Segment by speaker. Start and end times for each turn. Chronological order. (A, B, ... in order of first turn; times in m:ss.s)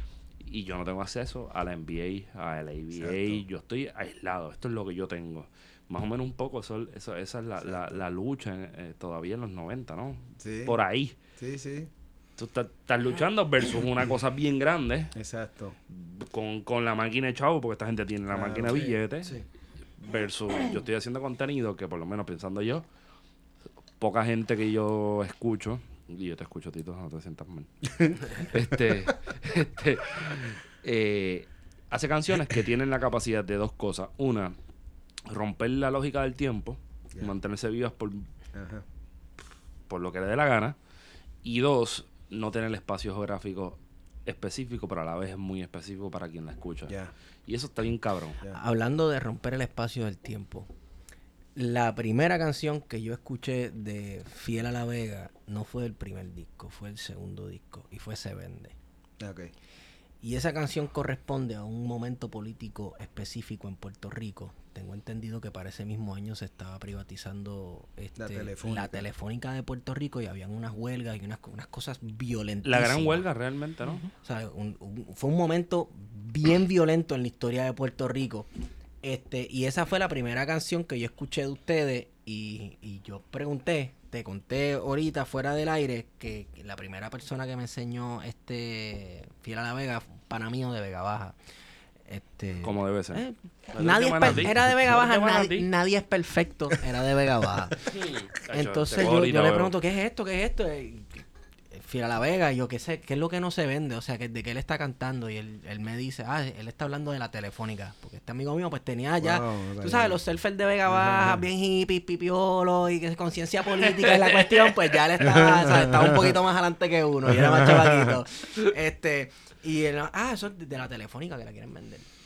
0:00.4-0:11.2 A
0:02.9-0:03.4 B
0:07.6-0:08.0 B
0:10.4-0:10.8 B
0:11.4-0:11.9 B
0:12.4-0:15.1 A
0:15.1-0:15.8 B
0:15.9-0:19.4 A
0:18.3-0:19.0 B
0:20.0-0:22.9 A
0:24.0-0:27.7 A
0:27.8-0:28.2 B
0:28.3-0:34.6 A
0:35.3-0:38.3 A
0:38.5-0:38.8 B
0:39.9-0:40.8 A
0:41.4-0:46.9 A
0:46.9-0:47.1 B
0:47.4-0:48.4 A
0:48.5-0:50.7 C
0:51.6-0:58.7 C
0:59.2-0:59.5 B
1:00.2-1:13.3 C
1:08.2-1:09.1 B
1:12.6-1:14.1 A
1:14.2-1:18.5 C
1:19.0-1:31.4 C
1:32.1-1:37.8 C
1:32.6-1:35.7 A
1:37.9-1:39.7 A
1:38.5-2:02.0 C
1:49.2-1:50.2 B
1:50.9-1:51.4 B
1:53.8-1:54.9 A
1:55.2-1:56.3 B
1:57.3-1:58.1 B